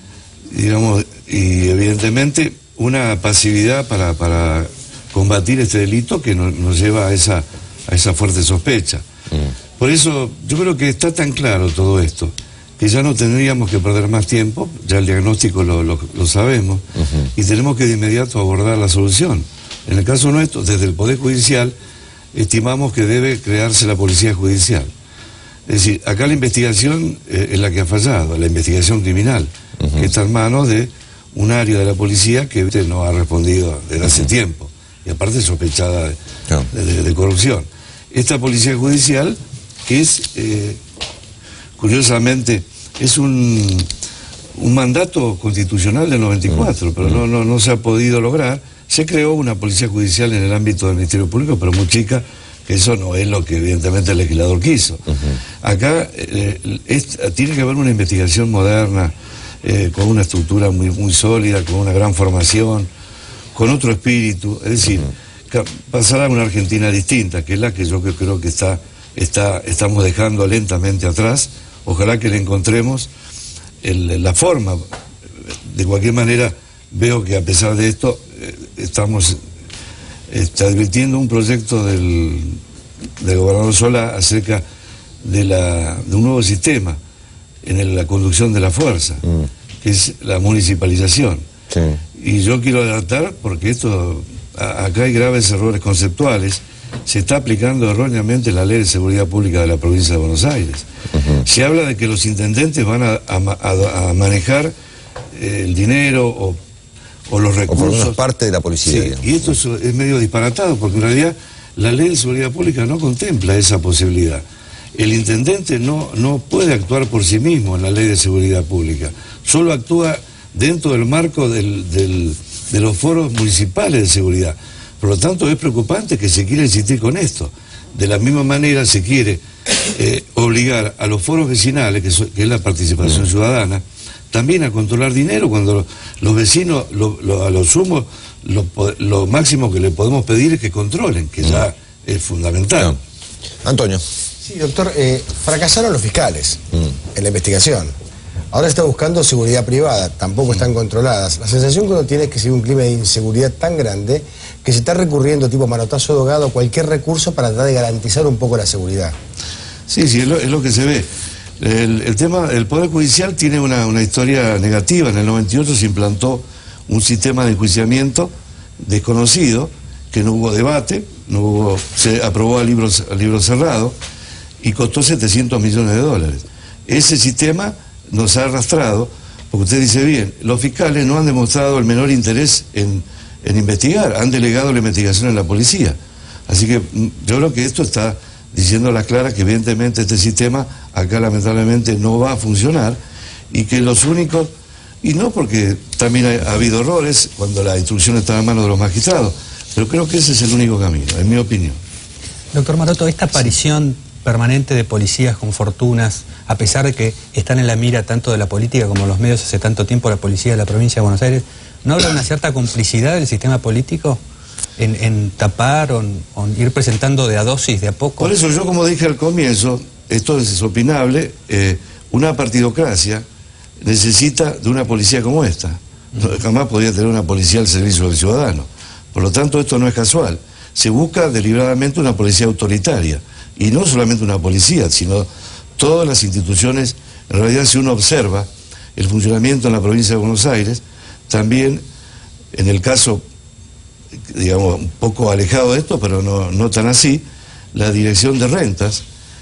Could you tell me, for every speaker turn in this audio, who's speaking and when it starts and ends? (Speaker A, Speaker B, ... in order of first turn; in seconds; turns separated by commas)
Speaker A: 0.5-9.0, Speaker A: 9.8-16.8, Speaker B: 17.0-17.3, Speaker A: 17.4-21.7, Speaker A: 22.3-24.9, Speaker A: 25.7-36.2, Speaker B: 29.8-30.1, Speaker A: 36.7-40.8, Speaker A: 41.8-43.9, Speaker A: 44.6-55.0, Speaker A: 55.6-62.9, Speaker A: 63.5-73.1, Speaker A: 73.8-74.9, Speaker A: 75.7-79.4, Speaker A: 80.3-82.6, Speaker A: 83.2-84.6, Speaker A: 85.2-87.0, Speaker A: 87.6-89.2, Speaker A: 89.8-91.4, Speaker B: 91.7-92.0, Speaker A: 92.2-100.9, Speaker B: 101.1-101.4, Speaker A: 101.5-104.7, Speaker A: 105.3-106.6, Speaker A: 107.3-108.2, Speaker B: 107.7-109.3, Speaker A: 108.9-114.4, Speaker A: 115.0-129.4, Speaker A: 130.0-143.0, Speaker B: 143.6-144.0, Speaker C: 144.4-147.9, Speaker C: 148.5-159.2, Speaker A: 159.9-161.1, Speaker A: 161.6-174.0, Speaker A: 174.6-186.0, Speaker A: 186.5-193.0, Speaker A: 193.5-194.5, Speaker A: 195.0-201.8, Speaker D: 202.5-214.2, Speaker D: 214.8-218.3, Speaker A: 218.2-223.2, Speaker A: 223.8-241.8, Speaker A: 242.5-243.2, Speaker A: 244.3-249.0